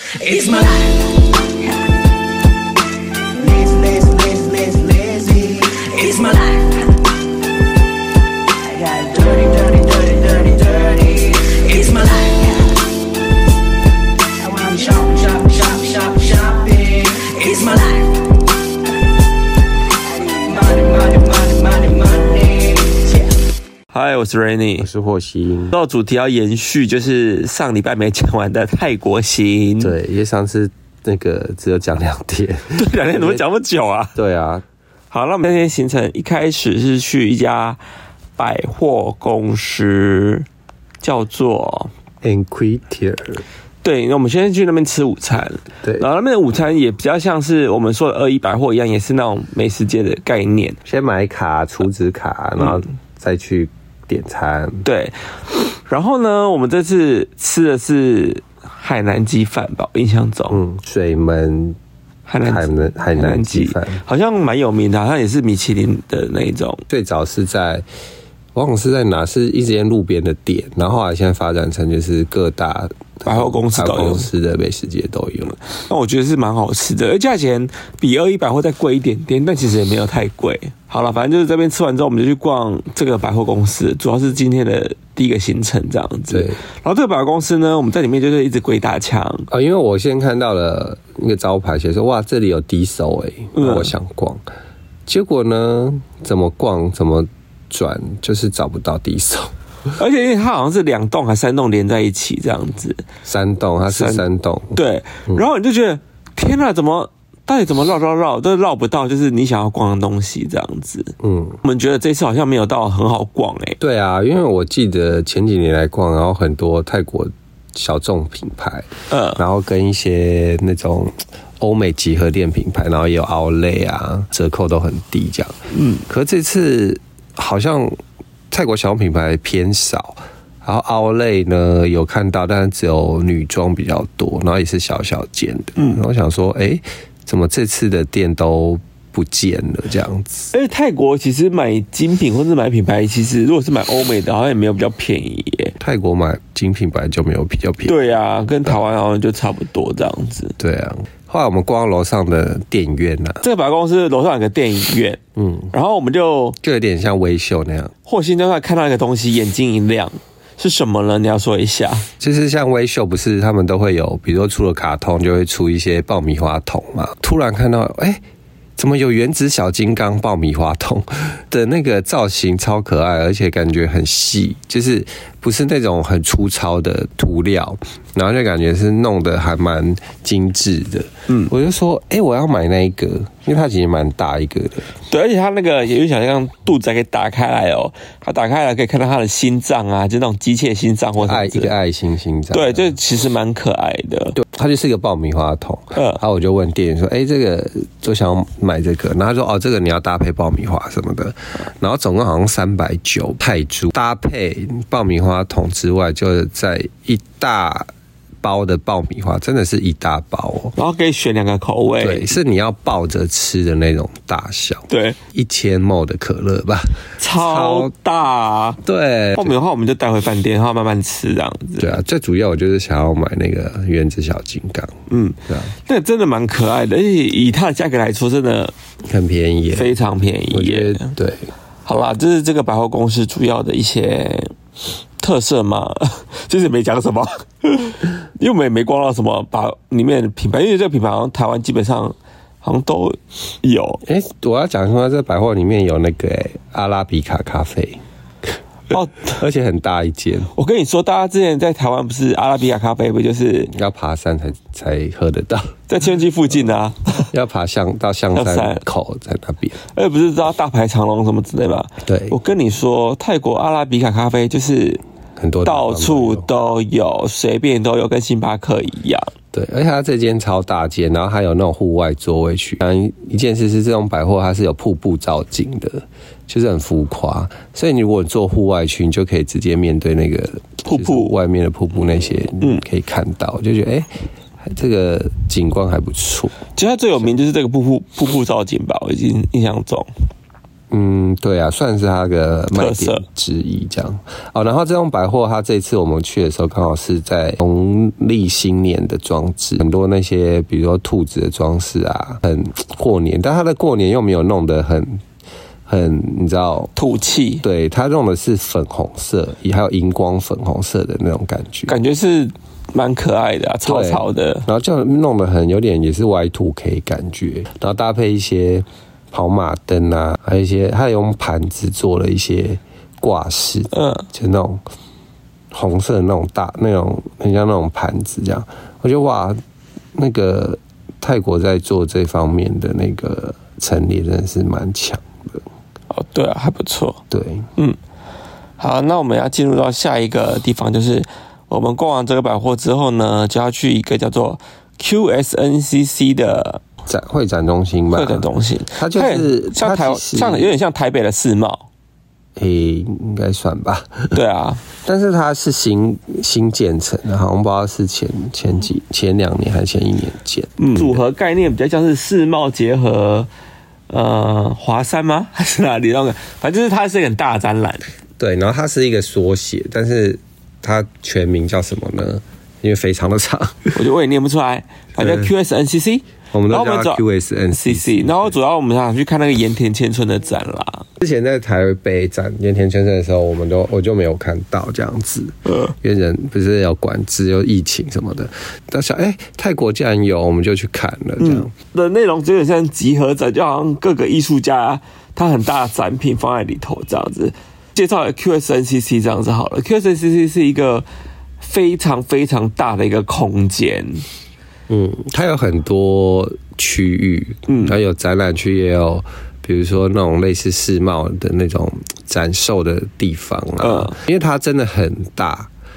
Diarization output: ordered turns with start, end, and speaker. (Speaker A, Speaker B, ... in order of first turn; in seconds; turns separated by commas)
Speaker A: 0.1-1.3, Speaker A: 3.4-6.9, Speaker A: 8.6-12.8, Speaker A: 14.3-18.2, Speaker A: 20.3-23.3, Speaker B: 23.9-24.9, Speaker C: 24.8-25.8, Speaker B: 25.7-29.9, Speaker C: 29.8-33.4, Speaker B: 32.7-34.2, Speaker C: 34.2-34.6, Speaker B: 35.1-37.8, Speaker B: 38.4-40.5, Speaker B: 41.0-41.9, Speaker C: 42.2-43.4, Speaker B: 43.8-50.8, Speaker C: 50.9-54.9, Speaker B: 52.6-52.8, Speaker B: 54.9-55.2, Speaker B: 55.8-60.6, Speaker C: 60.5-61.8, Speaker B: 62.3-66.8, Speaker C: 62.4-64.0, Speaker C: 66.9-67.8, Speaker C: 68.5-75.6, Speaker B: 73.3-74.3, Speaker B: 75.7-89.5, Speaker C: 86.3-86.6, Speaker C: 89.5-94.4, Speaker B: 93.5-93.9, Speaker C: 95.1-99.5, Speaker B: 100.0-103.0, Speaker C: 103.2-105.5, Speaker B: 103.9-113.8, Speaker C: 111.2-111.6, Speaker C: 113.8-128.0, Speaker B: 119.1-119.4, Speaker B: 125.7-126.0, Speaker C: 128.5-140.5, Speaker B: 140.5-145.8, Speaker C: 145.8-148.1, Speaker B: 147.8-150.6, Speaker C: 150.6-153.4, Speaker B: 153.4-155.2, Speaker C: 155.4-155.7, Speaker B: 155.7-156.6, Speaker C: 156.6-157.9, Speaker B: 158.1-162.1, Speaker C: 162.2-168.2, Speaker C: 168.8-184.9, Speaker B: 185.1-191.7, Speaker C: 191.2-193.0, Speaker B: 192.5-194.4, Speaker C: 194.3-207.9, Speaker B: 195.9-196.2, Speaker C: 208.4-210.7, Speaker B: 210.8-212.3, Speaker C: 212.0-217.9, Speaker B: 214.9-215.2, Speaker B: 217.2-218.8, Speaker C: 218.8-219.6, Speaker B: 219.4-221.9, Speaker C: 221.8-225.0, Speaker B: 225.1-228.7, Speaker C: 225.5-225.7, Speaker C: 229.1-229.9, Speaker B: 229.7-231.2, Speaker C: 230.5-231.5, Speaker B: 231.8-234.5, Speaker B: 235.2-244.0, Speaker C: 244.0-248.0, Speaker B: 248.9-249.4, Speaker C: 248.9-250.5, Speaker B: 250.5-253.7, Speaker C: 253.7-255.7, Speaker B: 255.9-257.3, Speaker C: 257.3-259.8, Speaker B: 258.3-258.8, Speaker B: 259.9-265.0, Speaker C: 262.1-262.4, Speaker C: 265.4-266.5, Speaker B: 265.6-269.3, Speaker C: 269.5-284.1, Speaker B: 280.9-281.4, Speaker C: 284.6-286.6, Speaker B: 286.8-290.1, Speaker C: 290.9-305.2, Speaker B: 292.7-293.2, Speaker C: 305.9-306.9, Speaker B: 307.0-307.6, Speaker C: 307.6-311.9, Speaker B: 311.9-314.7, Speaker C: 313.9-324.8, Speaker B: 323.9-324.3, Speaker C: 325.7-329.6, Speaker C: 330.1-335.6, Speaker B: 336.1-337.2, Speaker C: 337.3-337.7, Speaker B: 338.8-346.8, Speaker C: 347.1-350.7, Speaker B: 348.1-351.9, Speaker C: 352.6-354.4, Speaker B: 354.3-354.8, Speaker C: 355.0-361.2, Speaker B: 360.8-363.5, Speaker B: 364.1-368.0, Speaker C: 368.4-373.9, Speaker B: 373.9-377.2, Speaker C: 375.2-375.5, Speaker C: 376.5-378.6, Speaker B: 377.7-381.1, Speaker C: 381.2-391.7, Speaker B: 385.6-385.9, Speaker B: 391.4-401.1, Speaker B: 401.6-404.2, Speaker C: 404.9-415.7, Speaker B: 407.7-407.9, Speaker B: 413.8-414.2